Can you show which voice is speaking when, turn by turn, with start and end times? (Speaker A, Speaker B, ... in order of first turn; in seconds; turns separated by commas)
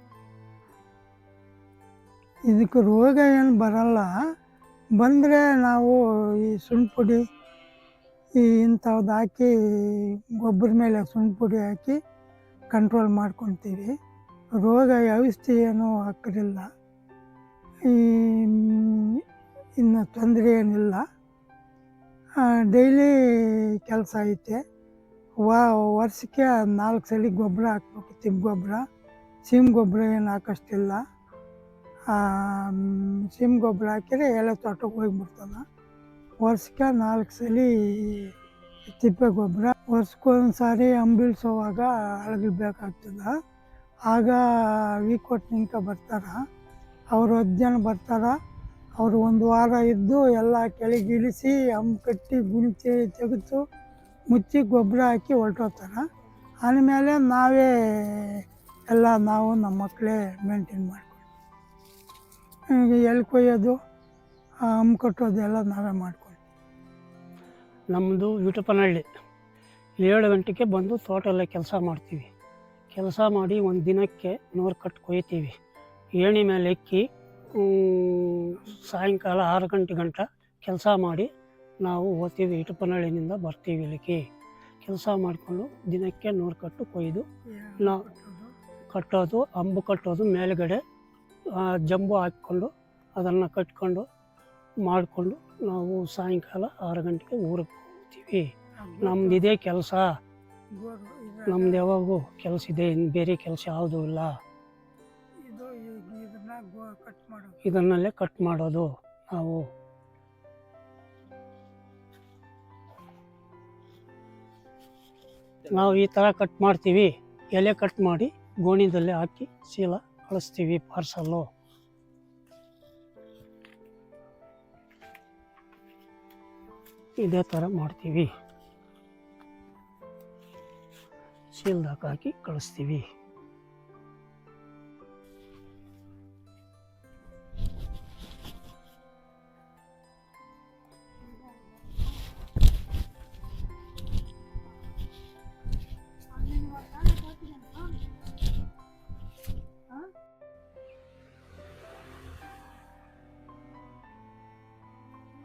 Speaker A: 2.5-4.1, Speaker A: 5.0-7.2, Speaker A: 8.4-12.0, Speaker A: 12.7-13.9, Speaker A: 14.6-16.7, Speaker A: 17.9-19.2, Speaker A: 19.8-21.1, Speaker A: 22.4-24.6, Speaker A: 25.4-28.8, Speaker A: 29.4-31.0, Speaker A: 32.1-35.6, Speaker A: 36.4-38.3, Speaker A: 38.9-43.3, Speaker A: 44.1-46.4, Speaker A: 47.1-48.4, Speaker A: 49.0-53.6, Speaker A: 54.3-56.0, Speaker A: 56.6-61.3, Speaker A: 62.7-63.8, Speaker A: 64.7-66.4, Speaker B: 67.9-69.0, Speaker B: 70.0-72.3, Speaker B: 72.9-75.5, Speaker B: 76.2-81.3, Speaker B: 81.8-84.2, Speaker B: 84.8-87.2, Speaker A: 87.5-88.5, Speaker B: 88.9-90.8, Speaker B: 91.5-94.1, Speaker B: 94.8-100.2, Speaker A: 98.8-99.5, Speaker A: 100.7-101.9, Speaker B: 101.5-104.4, Speaker A: 105.4-107.6, Speaker B: 107.6-109.7, Speaker B: 115.7-121.5, Speaker B: 127.2-128.3, Speaker B: 131.5-133.1, Speaker A: 141.4-141.9, Speaker A: 146.3-148.0